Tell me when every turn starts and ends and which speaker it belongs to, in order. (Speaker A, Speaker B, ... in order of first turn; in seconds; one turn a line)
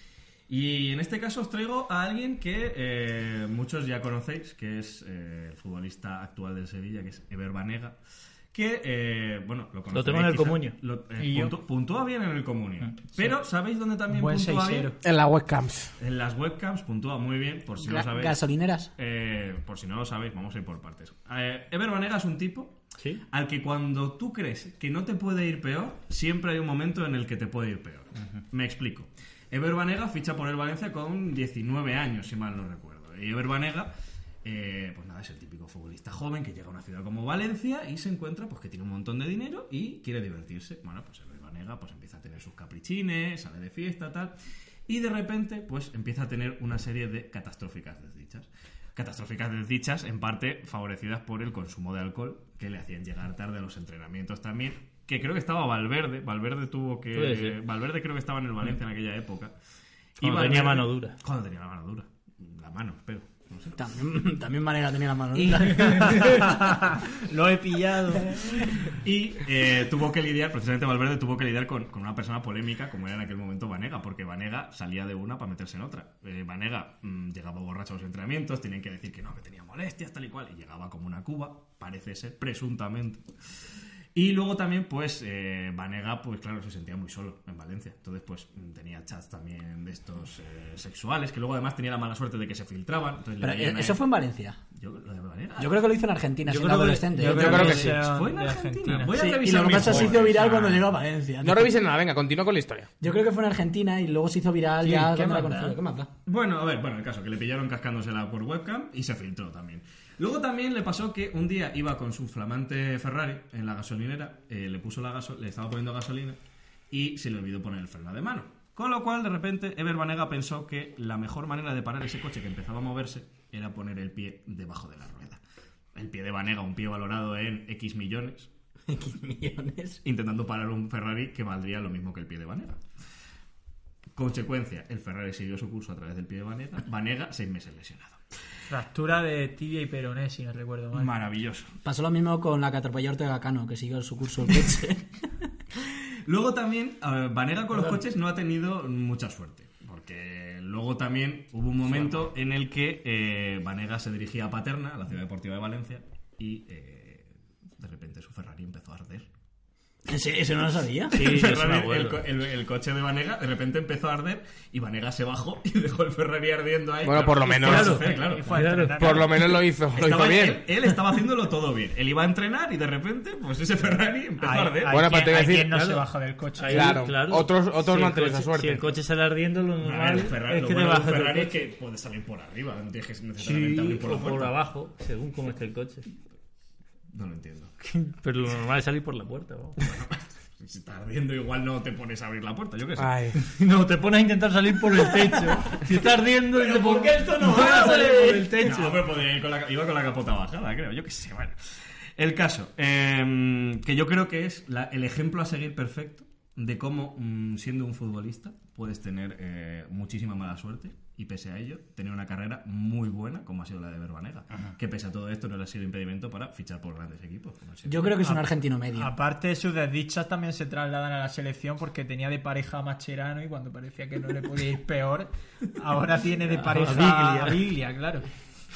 Speaker A: 0.5-8.0
Speaker A: 8.5-15.0
Speaker B: 9.9-10.8
Speaker C: 11.2-11.5
Speaker C: 14.1-14.9
Speaker D: 15.0-15.9
Speaker A: 16.0-18.4
Speaker E: 17.8-18.9
Speaker A: 18.9-22.7
Speaker A: 23.3-33.9
Speaker A: 34.4-44.4
Speaker A: 44.9-59.5
Speaker B: 57.1-57.6
Speaker A: 60.2-63.8
Speaker B: 60.2-61.2
Speaker E: 63.7-66.5
Speaker C: 65.4-68.7
Speaker A: 69.0-83.2
Speaker A: 84.1-94.0
Speaker E: 93.4-94.6
Speaker A: 94.8-95.8
Speaker E: 95.6-97.8
Speaker B: 96.5-97.8
Speaker C: 97.1-99.2
Speaker D: 97.3-98.0
Speaker A: 97.4-100.9
Speaker E: 99.1-101.7
Speaker D: 99.8-100.1
Speaker D: 101.4-102.9
Speaker E: 103.0-106.1
Speaker B: 105.2-105.7
Speaker A: 106.2-116.4
Speaker A: 116.9-125.4
Speaker A: 125.9-128.5
Speaker E: 128.9-130.0
Speaker A: 130.0-132.8
Speaker A: 134.1-138.2
Speaker C: 138.7-141.1
Speaker A: 140.9-141.7
Speaker E: 141.8-145.2
Speaker A: 146.2-159.3
Speaker E: 160.1-161.3
Speaker B: 161.1-162.2
Speaker A: 161.1-168.8
Speaker D: 167.0-168.0
Speaker B: 167.6-169.3
Speaker C: 167.6-169.3
Speaker D: 169.0-170.6
Speaker A: 169.9-175.2
Speaker C: 174.4-177.0
Speaker D: 174.9-175.7
Speaker B: 175.2-176.0
Speaker B: 176.6-181.6
Speaker D: 176.7-178.9
Speaker A: 179.8-184.5
Speaker B: 183.4-186.1
Speaker A: 187.1-187.7
Speaker B: 187.8-189.9
Speaker A: 189.8-193.1
Speaker D: 193.0-193.3
Speaker B: 193.3-199.0
Speaker C: 197.2-198.7
Speaker A: 198.6-218.2
Speaker E: 217.8-219.1
Speaker C: 218.9-228.2
Speaker D: 226.7-227.5
Speaker B: 226.8-227.1